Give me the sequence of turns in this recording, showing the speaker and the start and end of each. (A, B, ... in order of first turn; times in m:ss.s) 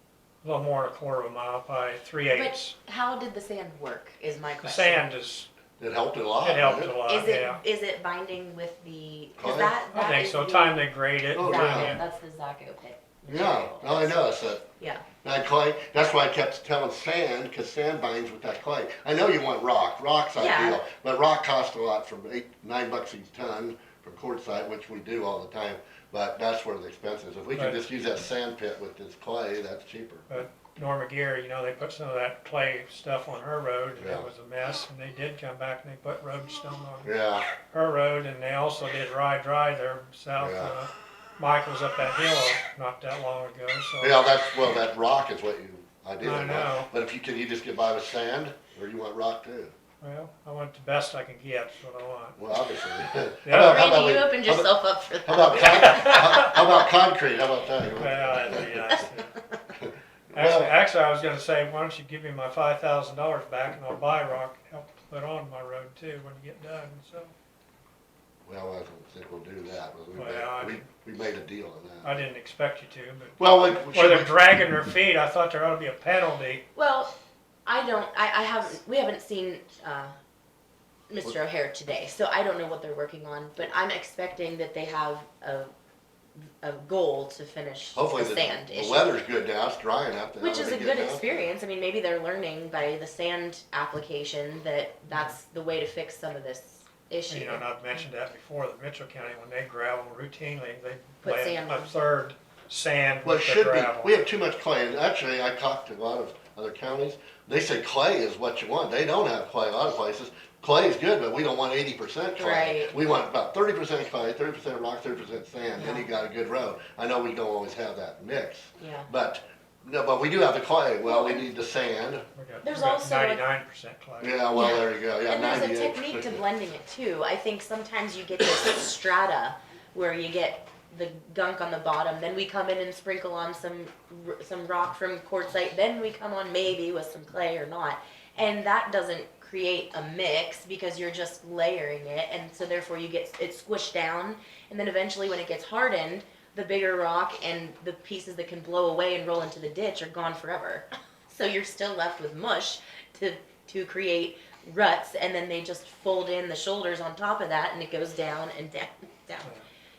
0:00.4-0:02.8 A
0:02.3-0:05.1 B
0:04.6-0:05.5 A
0:05.8-0:07.0 C
0:06.4-0:07.6 A
0:07.0-0:10.9 B
0:09.4-0:09.8 C
0:09.9-0:12.0 A
0:11.4-0:12.0 C
0:11.4-0:15.0 B
0:13.3-0:14.7 C
0:15.2-0:30.3 C
0:20.4-0:20.8 B
0:27.6-0:27.8 A
0:30.3-0:44.2 A
0:34.0-0:34.3 C
0:37.0-0:37.5 C
0:40.4-0:40.8 C
0:44.0-0:49.7 C
0:46.2-0:46.9 A
0:50.0-0:52.4 A
0:52.4-0:54.8 C
0:53.4-0:54.0 A
0:53.5-0:56.7 B
0:55.3-0:59.0 C
0:55.8-0:56.5 A
0:58.0-0:59.4 A
0:59.8-1:00.7 C
1:00.3-1:07.3 A
1:08.5-1:12.1 C
1:10.2-1:10.9 A
1:12.0-1:16.6 A
1:13.4-1:14.3 C
1:16.8-1:17.1 B
1:17.7-1:20.1 B
1:21.1-1:25.7 B
1:26.4-1:29.2 B
1:28.0-1:31.3 C
1:30.4-1:37.7 B
1:37.3-1:44.1 A
1:41.2-1:42.0 B
1:43.2-2:02.3 C
1:52.4-1:53.0 B
1:55.8-1:56.1 B
1:58.8-1:59.1 B
2:01.0-2:01.4 B
2:02.4-2:04.4 A
2:02.6-2:03.4 B
2:04.2-2:06.4 C
2:04.5-2:39.6 B